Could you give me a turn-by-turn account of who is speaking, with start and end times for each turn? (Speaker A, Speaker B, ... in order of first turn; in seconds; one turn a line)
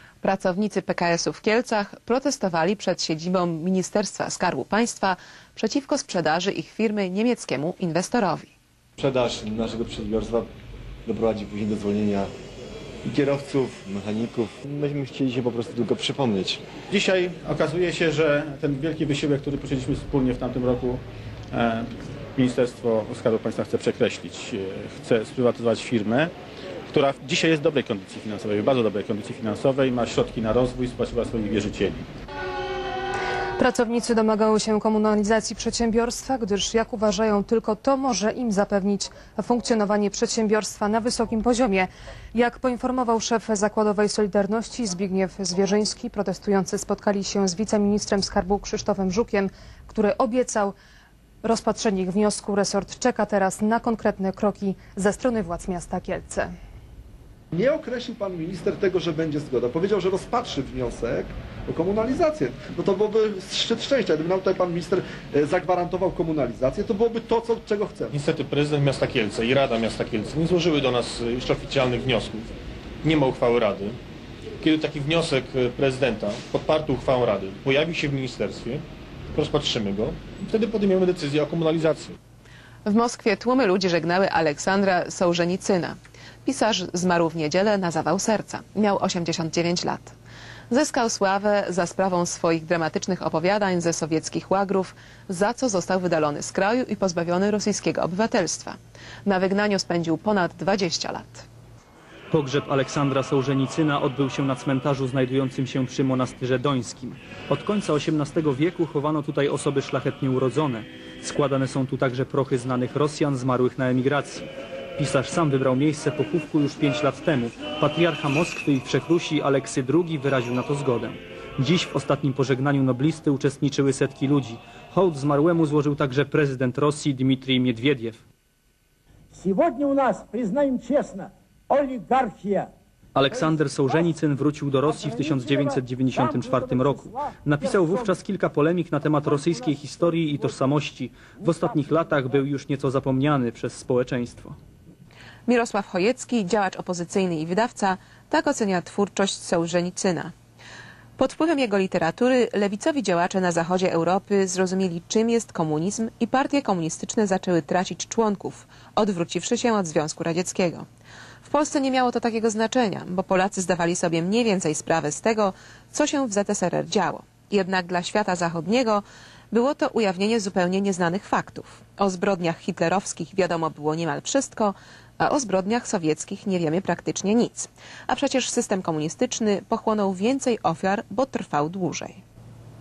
Speaker A: 0.2-8.5
Speaker B: 9.0-10.5
Speaker B: 11.1-12.3
Speaker B: 13.0-16.6
Speaker C: 16.9-26.3
Speaker C: 26.9-32.1
Speaker D: 33.6-50.7
Speaker D: 51.4-56.5
Speaker E: 57.5-68.2
Speaker F: 68.1-72.5
Speaker F: 73.0-74.0
Speaker F: 74.6-78.8
Speaker F: 79.3-82.2
Speaker A: 82.8-90.1
Speaker A: 90.7-101.5
Speaker G: 102.3-128.2
Speaker H: 129.4-132.7
Speaker G: 133.2-144.6
Speaker A: 145.5-150.3
Speaker A: 151.2-160.9
Speaker A: 161.5-182.2